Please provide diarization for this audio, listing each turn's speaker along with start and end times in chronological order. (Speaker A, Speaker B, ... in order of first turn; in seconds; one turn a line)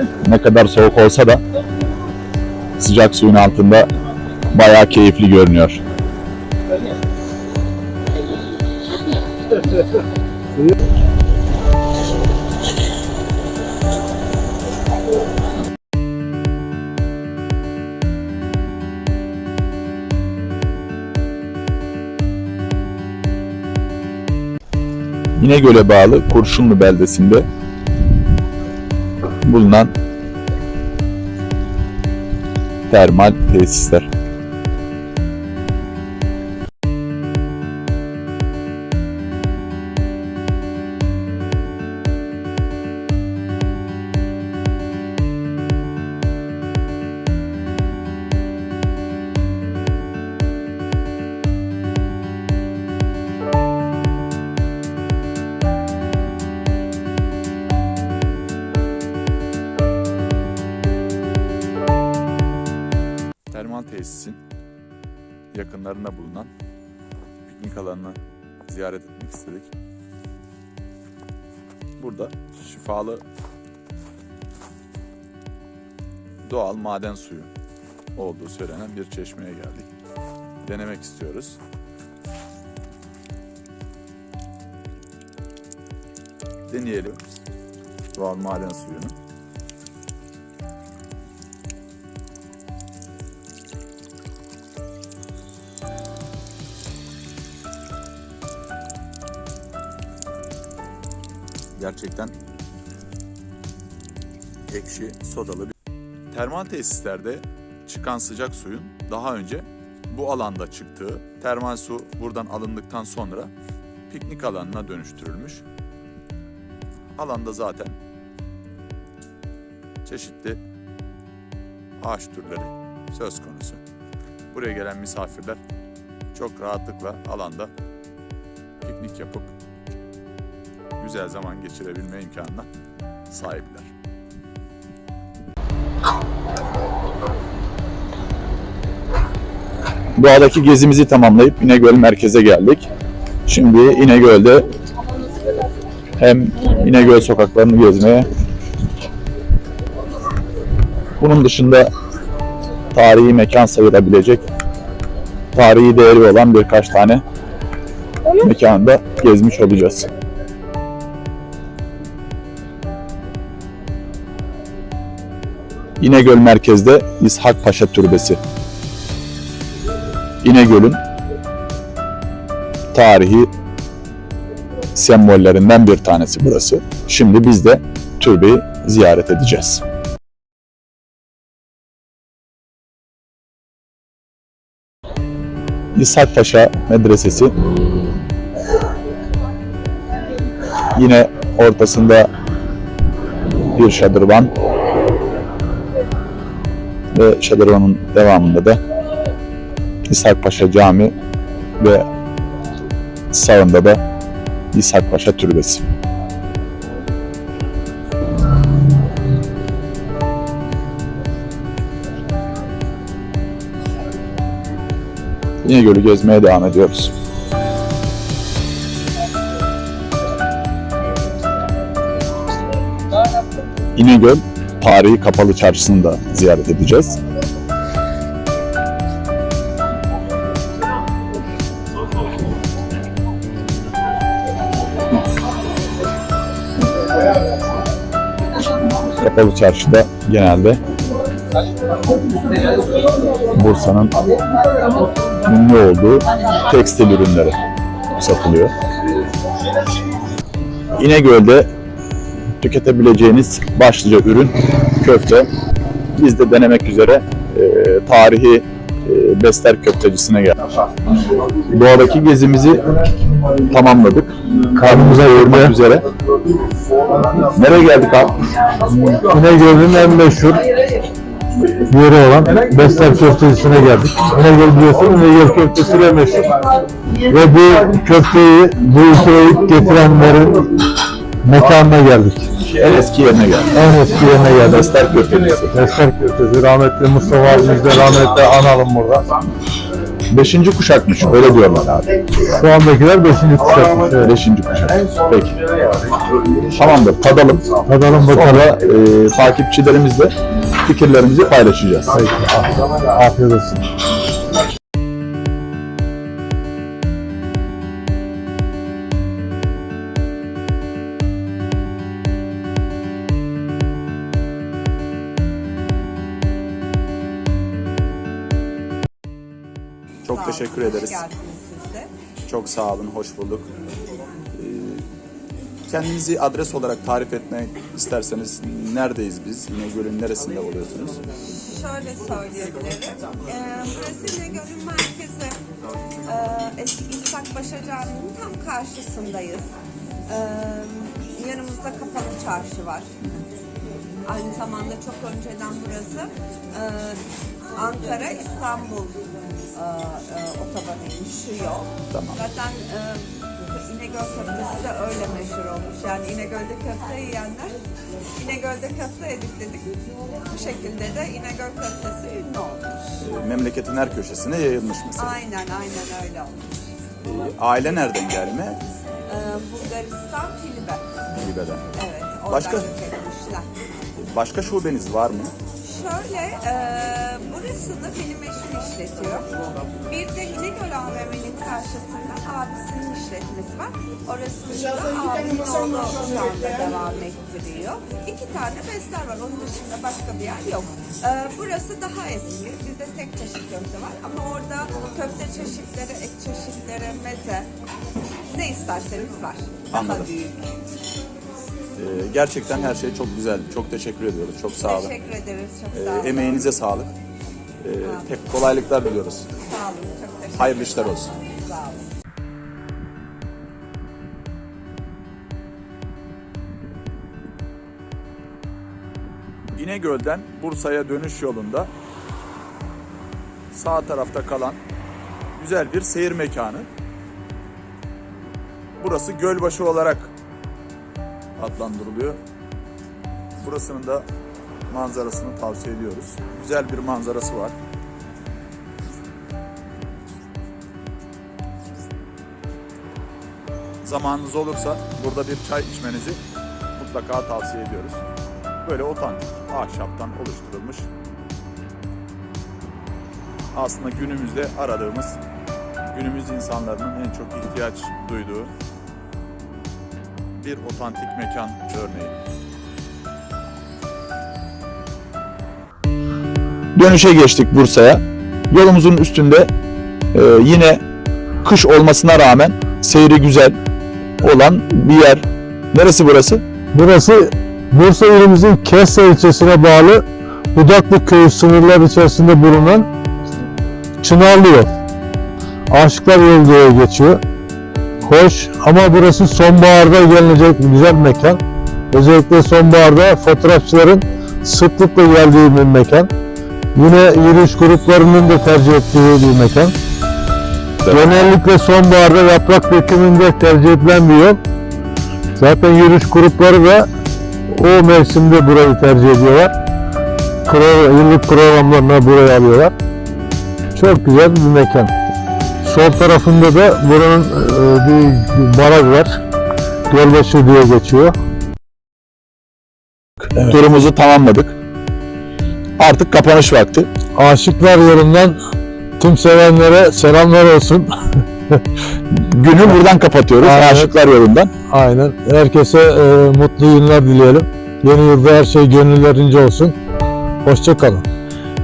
Speaker A: 0.2-1.4
Speaker A: 2.8-3.9
Speaker A: 4.5-5.8
Speaker A: 25.4-27.4
Speaker A: 29.4-29.9
Speaker A: 32.9-34.1
Speaker A: 63.5-64.4
Speaker A: 65.5-66.5
Speaker A: 67.5-69.7
Speaker A: 72.0-73.2
Speaker A: 76.4-77.5
Speaker A: 78.2-79.9
Speaker A: 80.6-81.6
Speaker A: 86.7-87.2
Speaker A: 88.1-89.1
Speaker A: 101.8-102.3
Speaker A: 104.7-105.7
Speaker A: 106.3-113.5
Speaker A: 114.1-115.6
Speaker A: 117.2-118.0
Speaker A: 120.0-120.6
Speaker A: 122.0-123.8
Speaker A: 124.5-125.6
Speaker A: 126.3-127.7
Speaker A: 128.8-129.5
Speaker A: 131.0-132.7
Speaker A: 133.3-133.9
Speaker A: 140.2-142.9
Speaker A: 143.4-144.7
Speaker A: 146.2-148.3
Speaker A: 151.2-151.9
Speaker A: 152.9-154.4
Speaker A: 155.5-157.2
Speaker A: 158.3-160.1
Speaker A: 166.0-168.4
Speaker A: 170.4-171.0
Speaker A: 172.9-173.5
Speaker A: 174.9-179.8
Speaker A: 185.9-187.5
Speaker A: 190.9-192.3
Speaker A: 193.7-194.5
Speaker A: 197.1-198.8
Speaker A: 200.1-201.1
Speaker A: 201.8-202.1
Speaker A: 203.3-204.0
Speaker A: 204.7-205.8
Speaker A: 215.6-217.1
Speaker A: 223.9-227.2
Speaker A: 239.2-240.8
Speaker A: 243.5-244.1
Speaker A: 245.4-247.6
Speaker A: 248.2-248.7
Speaker A: 250.9-251.7
Speaker A: 252.6-255.5
Speaker A: 256.1-260.6
Speaker A: 261.6-262.9
Speaker A: 263.6-266.1
Speaker B: 264.8-265.8
Speaker A: 267.4-268.4
Speaker B: 269.1-270.6
Speaker B: 271.9-276.6
Speaker B: 277.3-280.8
Speaker B: 281.4-282.5
Speaker A: 282.7-283.8
Speaker B: 283.7-284.9
Speaker A: 284.6-285.8
Speaker B: 285.7-289.3
Speaker A: 290.3-292.1
Speaker B: 292.4-294.3
Speaker A: 294.2-295.6
Speaker A: 296.7-300.3
Speaker B: 297.9-298.8
Speaker A: 300.8-302.2
Speaker B: 302.1-303.8
Speaker A: 320.2-321.2
Speaker C: 320.3-322.1
Speaker A: 322.4-323.7
Speaker A: 324.5-325.0
Speaker A: 325.9-331.2
Speaker C: 331.4-335.6
Speaker C: 336.2-339.7
Speaker C: 340.3-343.1
Speaker C: 344.2-347.2
Speaker C: 347.7-357.8
Speaker A: 352.1-352.4
Speaker C: 358.4-363.0
Speaker A: 363.2-365.4
Speaker C: 365.2-366.9
Speaker A: 367.2-368.8
Speaker C: 369.3-371.1
Speaker A: 371.4-371.8
Speaker C: 371.9-373.8
Speaker A: 372.5-372.9
Speaker A: 374.2-375.5
Speaker C: 375.8-379.5
Speaker C: 380.0-397.7
Speaker C: 398.5-400.7
Speaker A: 399.9-400.3
Speaker A: 401.9-405.1
Speaker C: 404.8-406.7
Speaker A: 405.9-407.1
Speaker A: 407.8-409.5
Speaker C: 409.6-412.1
Speaker A: 410.5-411.3
Speaker A: 419.7-421.9
Speaker A: 423.7-424.8
Speaker A: 425.6-426.9
Speaker A: 429.0-430.3
Speaker A: 431.6-432.4
Speaker A: 433.6-434.2
Speaker A: 434.9-437.8
Speaker A: 444.0-446.4
Speaker A: 446.9-448.2
Speaker A: 448.8-451.1
Speaker A: 453.7-455.4
Speaker A: 456.1-458.7
Speaker A: 460.5-462.4
Speaker A: 466.9-469.7
Speaker A: 470.3-471.0
Speaker A: 471.6-473.8
Speaker A: 474.4-476.6
Speaker B: 476.9-483.1
Speaker B: 484.2-484.9
Speaker B: 485.9-487.4
Speaker B: 488.2-491.6
Speaker B: 492.1-496.3
Speaker B: 496.9-499.9
Speaker A: 501.0-501.4
Speaker B: 501.1-504.6
Speaker B: 505.6-507.1
Speaker B: 507.7-509.7
Speaker B: 510.6-512.9
Speaker B: 513.9-515.1
Speaker B: 515.8-519.3
Speaker B: 520.1-521.3
Speaker A: 523.5-524.8
Speaker A: 526.0-527.1
Speaker B: 527.4-528.6
Speaker B: 529.2-531.8
Speaker A: 532.3-534.7
Speaker B: 533.6-534.1
Speaker B: 534.9-539.9
Speaker B: 540.6-541.2